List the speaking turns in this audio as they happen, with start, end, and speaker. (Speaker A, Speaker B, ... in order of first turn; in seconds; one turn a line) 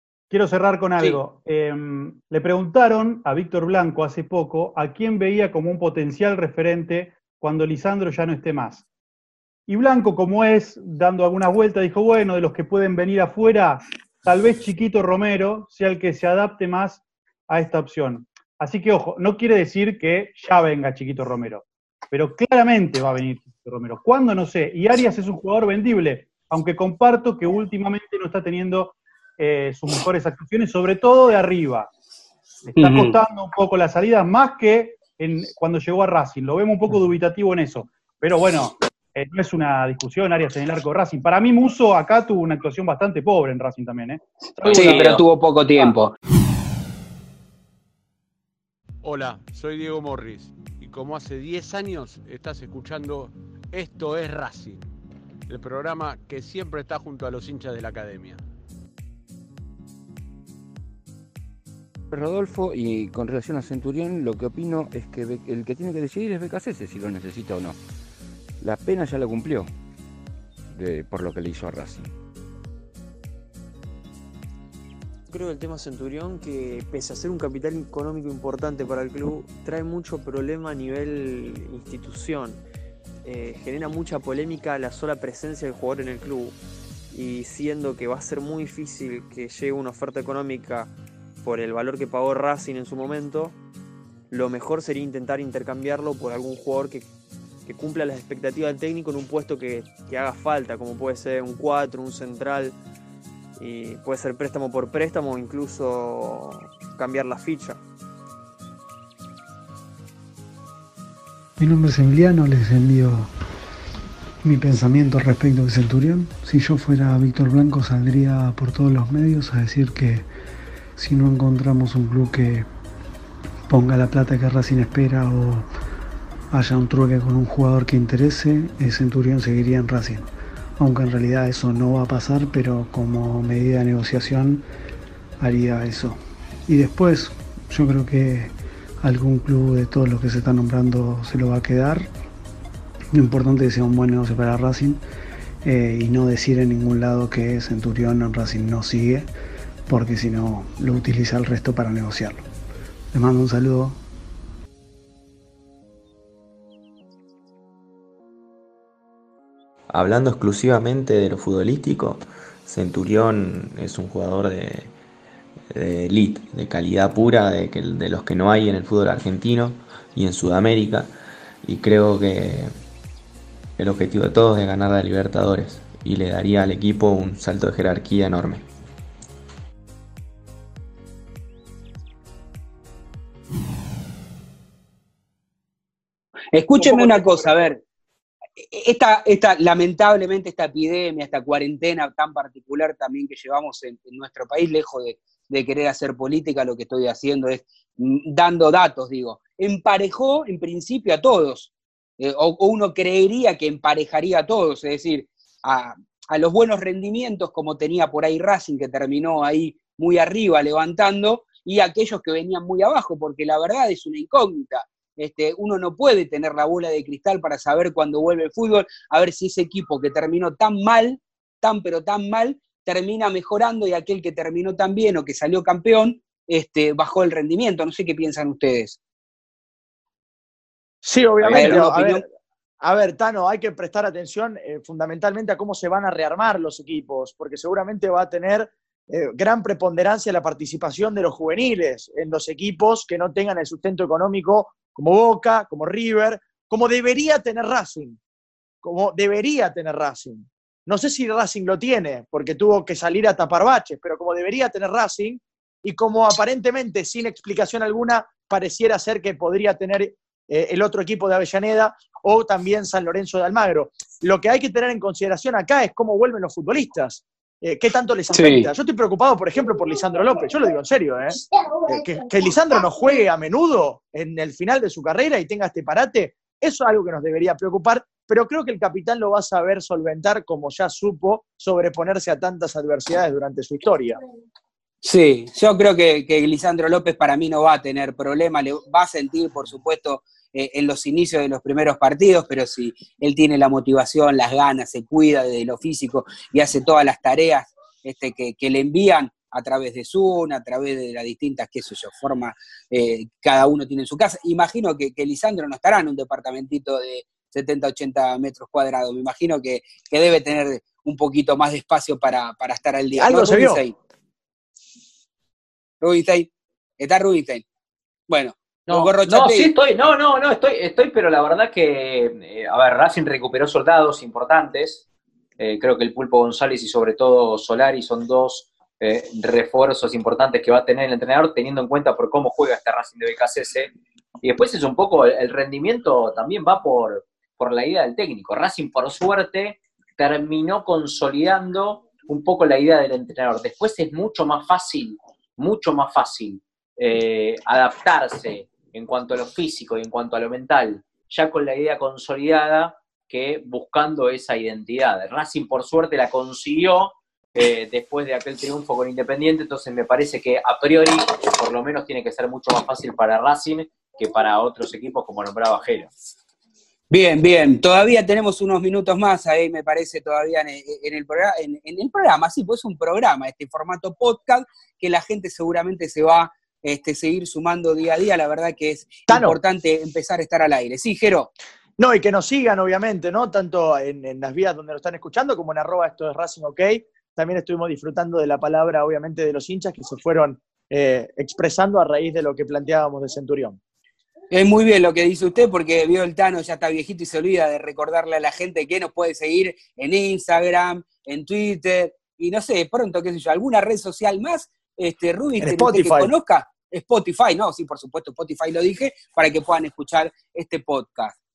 Speaker A: 0.3-8.8
Speaker A: 9.7-31.9
Speaker A: 32.7-45.2
Speaker B: 32.8-33.1
Speaker C: 44.6-45.2
Speaker B: 44.7-46.1
Speaker D: 49.0-54.9
Speaker D: 55.5-58.4
Speaker E: 62.1-67.8
Speaker E: 68.6-69.7
Speaker E: 70.7-72.1
Speaker F: 75.3-82.6
Speaker F: 83.2-86.5
Speaker F: 87.1-90.9
Speaker F: 91.4-93.6
Speaker F: 94.3-97.1
Speaker F: 97.7-102.8
Speaker F: 103.6-107.8
Speaker G: 111.6-113.3
Speaker G: 114.4-120.3
Speaker G: 121.0-122.7
Speaker G: 123.7-125.7
Speaker G: 126.5-130.3
Speaker G: 130.8-134.7
Speaker G: 135.4-142.1
Speaker G: 143.2-145.0
Speaker G: 145.6-149.3
Speaker G: 149.9-152.4
Speaker G: 153.1-154.0
Speaker H: 159.9-164.9
Speaker H: 165.7-171.1
Speaker H: 171.6-172.7
Speaker H: 173.8-178.7
Speaker B: 186.5-187.8
Speaker I: 186.8-187.5
Speaker B: 188.6-229.0
Speaker I: 231.0-232.2
Speaker B: 231.4-232.2
Speaker I: 232.8-248.2
Speaker I: 248.8-284.2
Speaker B: 268.3-268.7
Speaker B: 285.0-314.0
Speaker I: 313.1-313.8
Speaker B: 316.0-317.6
Speaker B: 318.3-319.8
Speaker C: 318.9-325.0
Speaker C: 325.6-366.1
Speaker B: 367.1-381.5
Speaker I: 379.3-379.6
Speaker I: 382.0-393.8
Speaker B: 394.5-411.4
Speaker I: 405.6-406.3